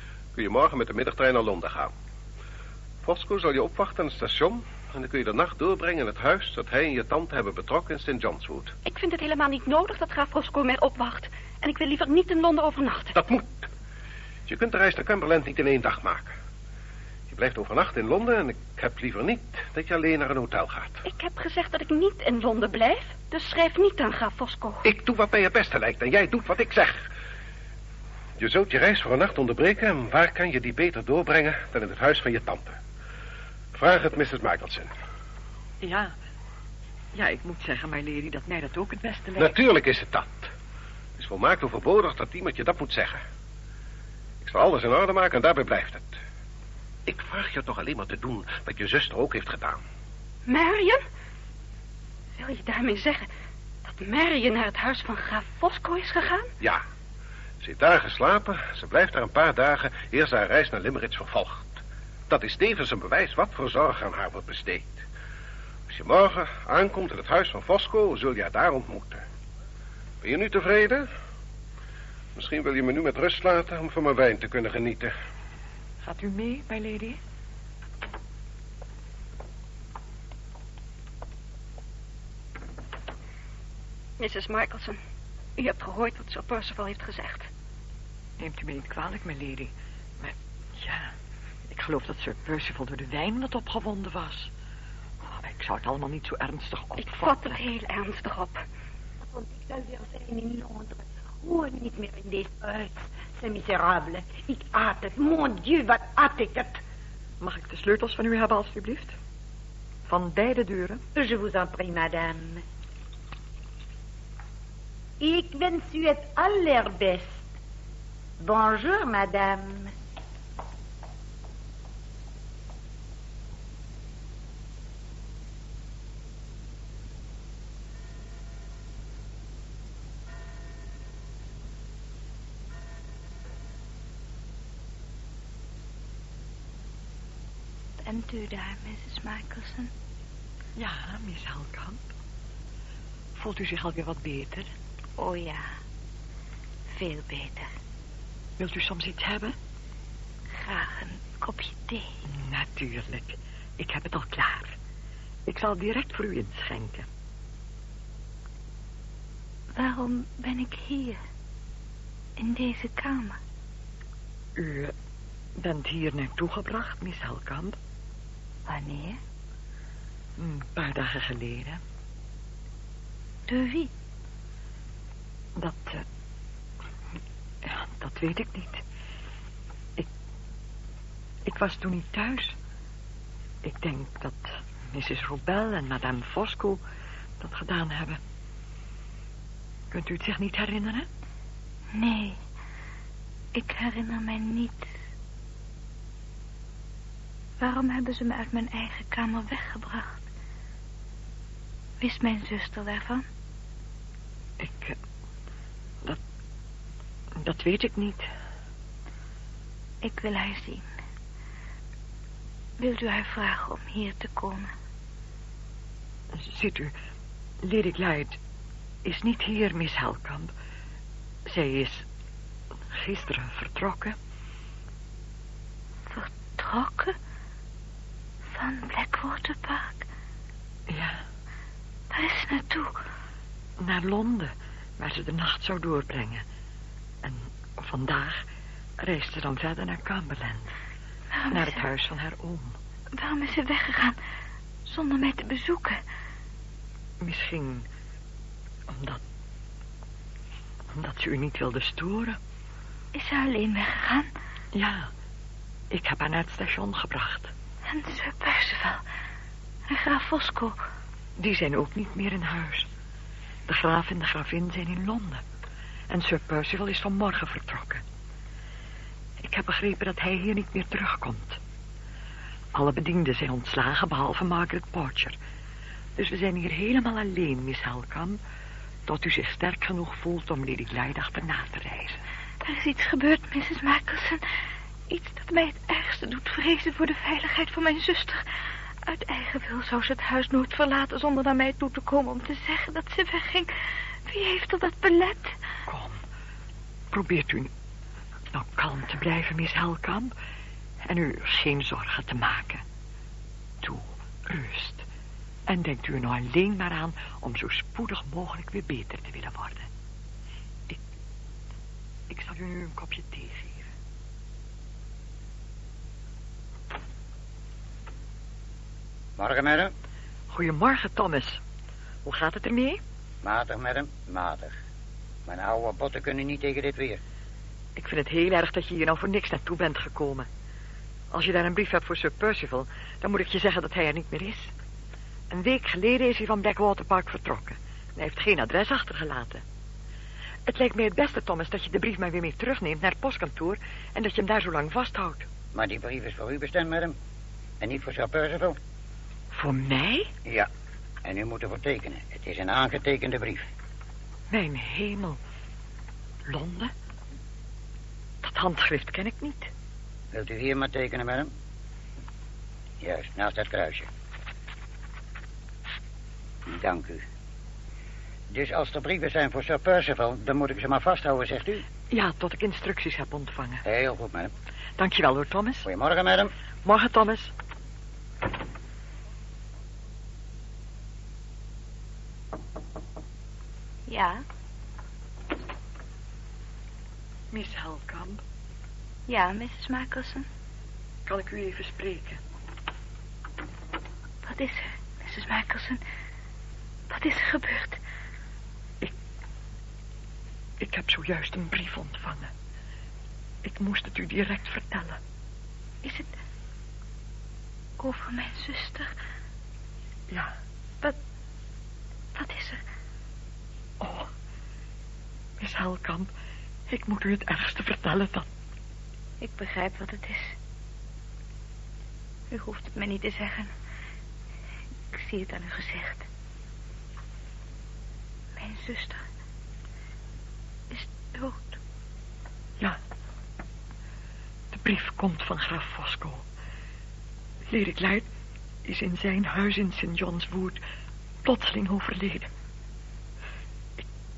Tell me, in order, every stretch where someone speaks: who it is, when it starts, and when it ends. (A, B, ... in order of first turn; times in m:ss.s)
0:00.4-0:01.9 A
0:03.0-0:08.7 A
0:08.8-0:13.2 B
0:13.1-0:13.7 A
0:14.5-0:16.3 A
0:17.3-0:21.0 A
0:21.0-0:24.8 B
0:24.8-0:27.1 A
0:28.4-0:32.8 A
0:33.7-0:34.9 A
0:35.8-0:36.1 C
0:37.1-0:39.5 C
0:39.4-0:40.5 A
0:41.2-0:43.2 A
0:44.4-0:46.2 A
0:47.0-0:49.8 A
0:50.4-0:51.0 B
0:52.4-0:53.3 B
0:53.8-0:56.5 B
0:57.6-1:05.0 A
1:05.9-1:09.2 A
1:10.2-1:11.1 A
1:12.4-1:15.1 A
1:16.0-1:17.2 C
1:24.2-1:25.0 B
1:25.6-1:27.5 B
1:28.4-1:31.1 C
1:31.7-1:34.5 C
1:35.2-1:37.6 C
1:37.0-1:38.6 B
1:39.2-1:46.8 D
1:47.4-1:49.2 C
1:50.1-1:51.0 C
1:51.1-1:52.6 D
1:55.2-1:57.5 D
1:58.4-2:00.0 D
2:18.0-2:19.9 E
2:20.8-2:22.0 C
2:23.4-2:24.7 C
2:25.2-2:25.7 E
2:26.9-2:27.7 E
2:28.6-2:29.5 C
2:30.6-2:32.2 E
2:32.3-2:34.7 C
2:35.4-2:37.0 C
2:39.7-2:41.2 E
2:42.4-2:43.4 E
2:44.6-2:44.9 C
2:45.6-2:47.8 C
2:48.7-2:49.2 E
2:50.4-2:51.8 C
2:53.5-2:53.9 E
2:55.6-2:56.0 C
2:57.6-2:58.8 C
3:01.4-3:02.5 C
3:03.6-3:06.8 C
3:07.4-3:08.2 C
3:09.9-3:11.1 C
3:11.9-3:12.4 E
3:13.5-3:14.9 E
3:17.6-3:20.2 E
3:22.0-3:23.2 E
3:24.6-3:25.0 C
3:27.4-3:28.3 C
3:30.0-3:30.9 E
3:32.8-3:34.7 E
3:36.3-3:36.9 C
3:37.6-3:38.4 C
3:39.0-3:40.5 C
3:41.4-3:42.0 C
3:42.9-3:44.2 C
3:46.1-3:47.1 E
3:48.5-3:50.0 E
3:50.9-3:51.2 C
3:52.1-3:53.0 E
3:53.8-3:56.4 C
3:57.2-3:58.4 C
3:59.0-4:00.7 C
4:01.3-4:01.8 E
4:01.5-4:02.8 C
4:03.2-4:04.2 E
4:04.8-4:06.0 E
4:07.2-4:07.9 C
4:08.9-4:09.2 C
4:10.9-4:12.4 C
4:13.1-4:14.3 E
4:14.7-4:15.1 C
4:15.9-4:17.5 C
4:17.9-4:19.0 E
4:19.9-4:20.8 E
4:21.4-4:22.9 C
4:23.7-4:25.4 C
4:26.1-4:28.0 C
4:29.4-4:31.6 C
4:32.7-4:35.4 C
4:36.2-4:38.4 C
4:39.1-4:42.2 C
4:42.6-4:44.4 E
4:45.1-4:48.5 E
4:49.0-4:55.6 E
4:55.9-4:56.2 C
4:57.1-4:57.7 C
4:58.5-5:00.3 C
5:01.0-5:02.8 C
5:03.8-5:05.0 C
5:05.7-5:09.9 C
5:12.3-5:13.9 C
5:19.4-5:19.9 F
5:20.5-5:21.6 C
5:22.2-5:23.0 C
5:23.4-5:24.8 F
5:25.4-5:27.2 F
5:28.0-5:30.5 C
5:31.3-5:34.7 C
5:35.5-5:39.6 C
5:40.6-5:45.5 C
5:45.7-5:47.1 F
5:47.8-5:48.8 F
5:49.5-5:50.3 C
5:51.2-5:53.6 F
5:54.5-5:55.4 C
5:56.4-5:56.9 C
5:58.4-5:59.7 C
6:00.3-6:01.5 F
6:03.0-6:04.1 F
6:06.6-6:07.2 F
6:08.5-6:11.8 F
6:12.1-6:13.8 C
6:13.8-6:14.5 F
6:15.0-6:15.9 C
6:15.8-6:16.5 F
6:16.8-6:17.5 C
6:24.1-6:24.4 E
6:27.5-6:28.4 C
6:29.3-6:30.4 E
6:31.2-6:32.4 C
6:34.4-6:36.0 E
6:37.1-6:38.0 E
6:40.8-6:42.5 C
6:43.6-6:45.2 C
6:46.0-6:46.3 E
6:48.0-6:49.1 E
6:52.3-6:52.8 E
6:54.0-6:54.3 C
6:55.6-6:56.3 C
6:56.9-6:58.5 C
6:59.4-7:00.5 E
7:02.5-7:03.7 E
7:05.1-7:06.2 E
7:08.6-7:09.2 E
7:10.9-7:11.8 E
7:14.7-7:16.4 C
7:17.7-7:18.3 C
7:18.8-7:20.8 C
7:21.4-7:22.5 C